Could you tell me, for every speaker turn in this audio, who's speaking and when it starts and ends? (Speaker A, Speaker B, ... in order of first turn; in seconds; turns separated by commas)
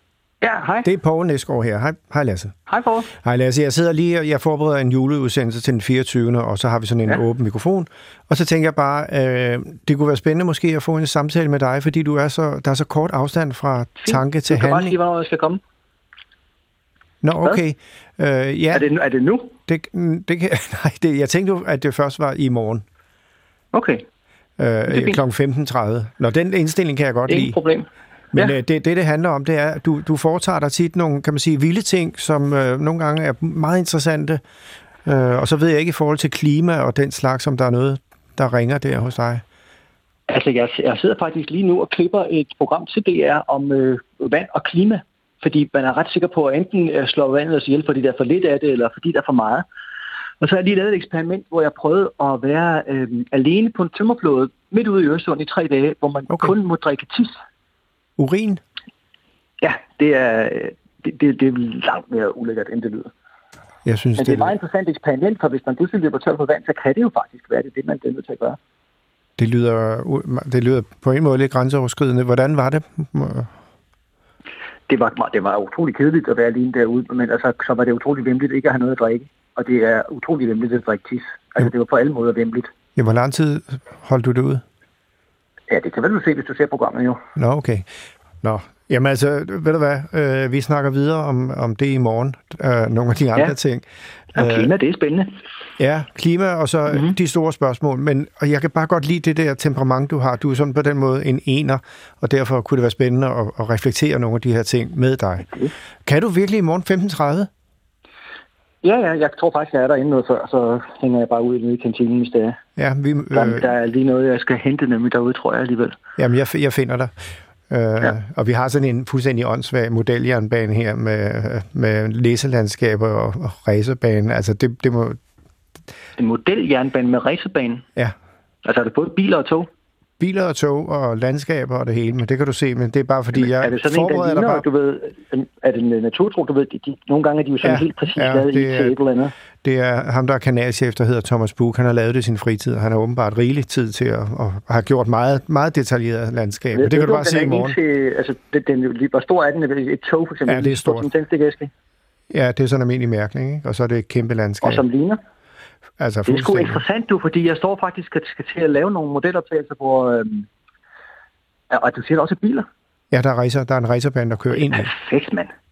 Speaker A: 0.4-0.9, Speaker B: 0.8-2.5, Speaker A: 2.7-3.1, Speaker B: 3.2-15.0, Speaker A: 14.0-15.6, Speaker B: 17.2-18.9, Speaker A: 18.7-19.6, Speaker B: 19.7-22.8, Speaker A: 23.7-24.1, Speaker B: 24.6-27.6, Speaker A: 24.9-25.2, Speaker A: 27.3-28.6, Speaker B: 28.3-34.4, Speaker B: 35.0-39.4, Speaker A: 40.3-49.6, Speaker A: 50.4-57.4, Speaker B: 56.3-56.5, Speaker B: 58.2-58.6, Speaker A: 59.6-63.1, Speaker B: 63.9-64.5, Speaker A: 64.2-68.6, Speaker B: 69.4-73.5, Speaker A: 74.9-82.7, Speaker B: 83.0-84.6, Speaker A: 85.7-87.2, Speaker B: 87.4-87.9, Speaker B: 88.4-94.7, Speaker A: 94.3-95.3, Speaker B: 95.8-105.5, Speaker A: 105.5-105.7, Speaker B: 106.1-107.5, Speaker A: 108.8-112.6, Speaker B: 112.8-113.7, Speaker A: 113.3-116.0, Speaker B: 116.2-117.1, Speaker B: 117.7-125.2, Speaker A: 126.2-127.8, Speaker A: 128.7-129.7, Speaker B: 130.2-134.7, Speaker A: 133.4-139.3, Speaker B: 137.6-139.0, Speaker B: 139.6-147.8, Speaker A: 146.7-151.7, Speaker B: 150.5-151.1, Speaker B: 152.3-154.8, Speaker A: 154.6-155.2, Speaker B: 156.0-156.8, Speaker A: 156.2-160.5, Speaker A: 161.7-162.7, Speaker B: 163.1-164.9, Speaker A: 164.5-165.5